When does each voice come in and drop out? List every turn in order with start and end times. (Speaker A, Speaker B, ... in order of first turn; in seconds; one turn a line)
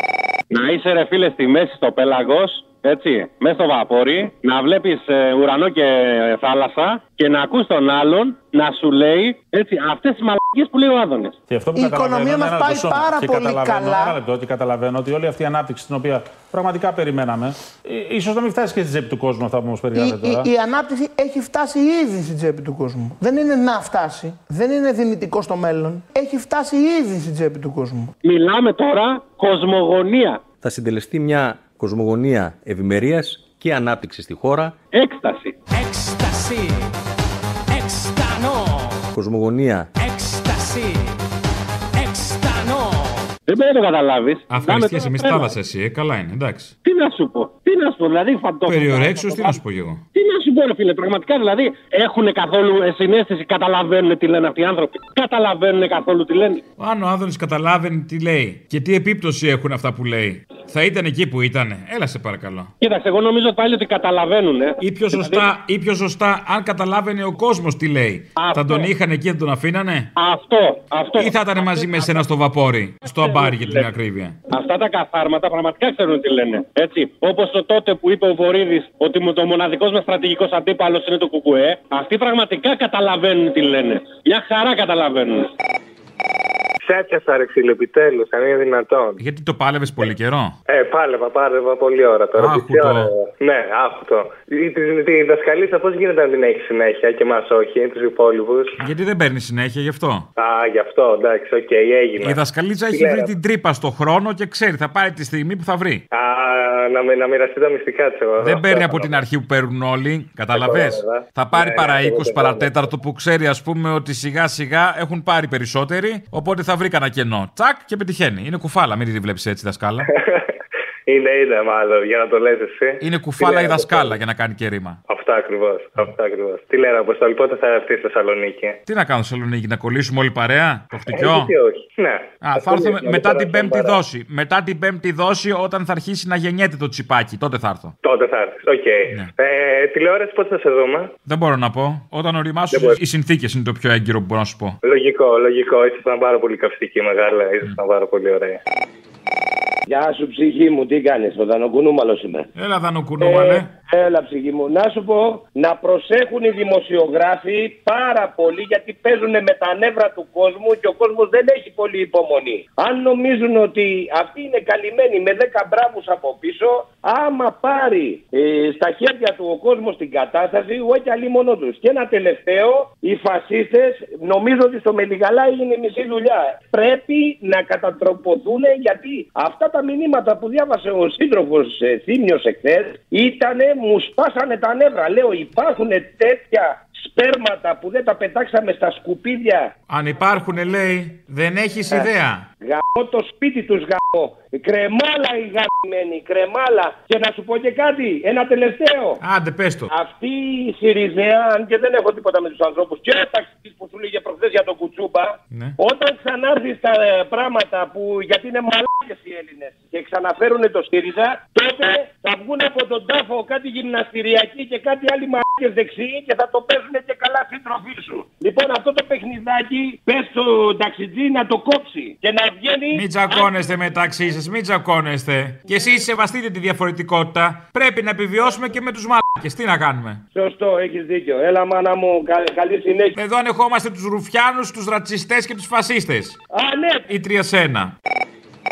Speaker A: 0.5-11.4
Speaker B: 11.5-20.5
Speaker C: 11.8-14.2
Speaker C: 20.0-28.1
Speaker A: 28.2-30.4
Speaker D: 30.6-34.8
Speaker A: 34.9-35.5
Speaker E: 35.8-36.9
Speaker E: 37.7-39.0
Speaker D: 39.1-39.9
Speaker E: 40.0-41.2
Speaker E: 42.0-43.3
Speaker A: 43.5-45.5
Speaker F: 44.5-46.7
Speaker A: 46.8-49.6
Speaker F: 48.7-50.0
Speaker A: 50.1-56.6
Speaker F: 56.8-62.7
Speaker A: 62.8-65.5
Speaker F: 64.8-70.1
Speaker A: 68.4-68.9
Speaker A: 70.2-71.9
Speaker F: 71.2-74.4
Speaker A: 73.3-73.9
Speaker A: 74.5-85.5
Speaker G: 86.8-89.2
Speaker F: 89.2-90.6
Speaker G: 90.7-98.8
Speaker F: 92.4-93.1
Speaker F: 98.8-100.3
Speaker G: 100.4-102.4
Speaker F: 102.2-106.0
Speaker G: 102.9-103.3
Speaker G: 106.1-109.2
Speaker F: 108.4-120.1
Speaker G: 110.5-112.9
Speaker G: 120.0-120.5
Speaker G: 121.1-124.2
Speaker F: 123.0-125.0
Speaker G: 125.1-128.8
Speaker F: 128.9-131.5
Speaker G: 131.1-134.0
Speaker F: 132.4-137.9
Speaker G: 138.0-141.1
Speaker F: 141.3-144.8
Speaker G: 142.7-143.0
Speaker G: 144.8-148.6
Speaker H: 149.9-152.5
Speaker F: 152.6-153.7
Speaker H: 153.2-189.7
Speaker F: 189.9-192.5
Speaker H: 192.6-199.2
Speaker F: 199.2-199.9
Speaker H: 199.9-223.4
Speaker F: 222.9-230.2
Speaker H: 230.3-233.1
Speaker F: 233.2-236.4
Speaker H: 236.5-237.1
Speaker F: 237.1-237.9